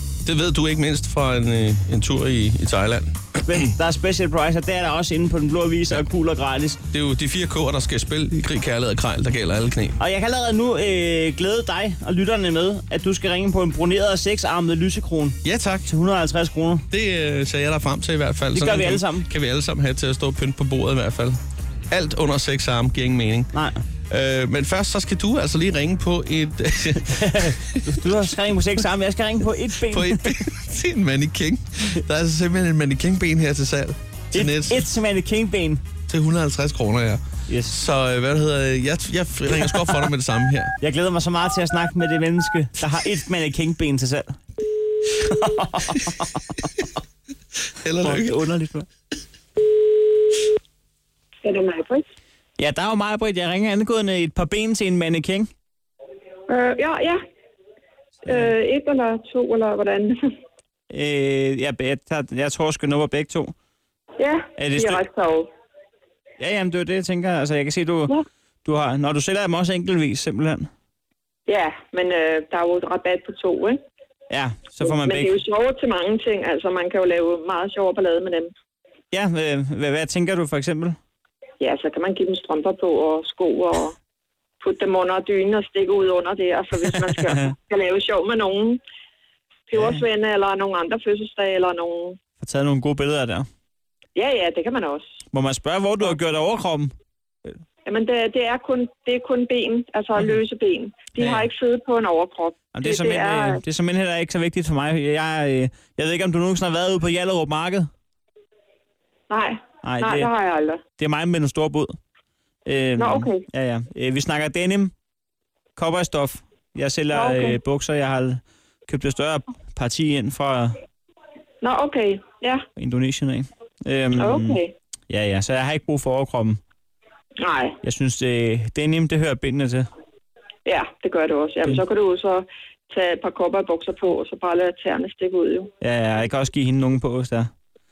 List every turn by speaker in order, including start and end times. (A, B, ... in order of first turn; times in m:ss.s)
0:00.2-0:03.7 A
0:03.4-0:06.8 B
0:06.9-0:10.0 A
0:10.0-0:16.8 B
0:15.4-0:15.9 A
0:16.9-0:21.4 A
0:18.5-0:19.3 B
0:21.9-0:23.5 A
0:23.5-0:23.8 B
0:24.1-0:28.0 A
0:27.0-0:30.4 B
0:29.9-0:34.9 A
0:34.3-0:35.8 B
0:36.1-0:40.7 A
0:37.5-0:37.8 B
0:40.8-0:44.4 B
0:45.2-0:46.7 B
0:47.8-0:48.4 A
0:48.0-0:48.9 B
0:51.4-0:52.0 C
0:52.6-0:55.5 B
0:56.5-0:57.2 C
0:58.2-0:58.5 B
0:58.3-1:00.2 C
1:00.9-1:03.5 B
1:04.2-1:05.5 C
1:04.6-1:05.0 B
1:06.4-1:08.1 B
1:08.6-1:10.7 B
1:11.5-1:13.8 C
1:14.3-1:15.4 B
1:14.8-1:18.5 C
1:19.1-1:21.0 B
1:21.6-1:23.9 C
1:24.6-1:28.8 C
1:29.7-1:32.2 C
1:32.4-1:33.5 B
1:34.2-1:35.0 C
1:35.3-1:36.9 B
1:37.8-1:43.6 C
1:41.2-1:41.5 B
1:42.7-1:47.9 B
1:49.3-1:50.8 C
1:49.8-1:50.3 B
1:51.0-1:52.0 B
1:52.7-1:54.9 B
1:53.0-1:53.4 C
1:55.8-2:00.8 B
1:57.1-1:57.6 C
2:01.6-2:02.6 C
2:02.8-2:06.6 B
2:04.2-2:04.7 C
2:07.4-2:07.8 C
2:07.8-2:09.9 B
2:10.6-2:15.7 C
2:15.8-2:17.5 B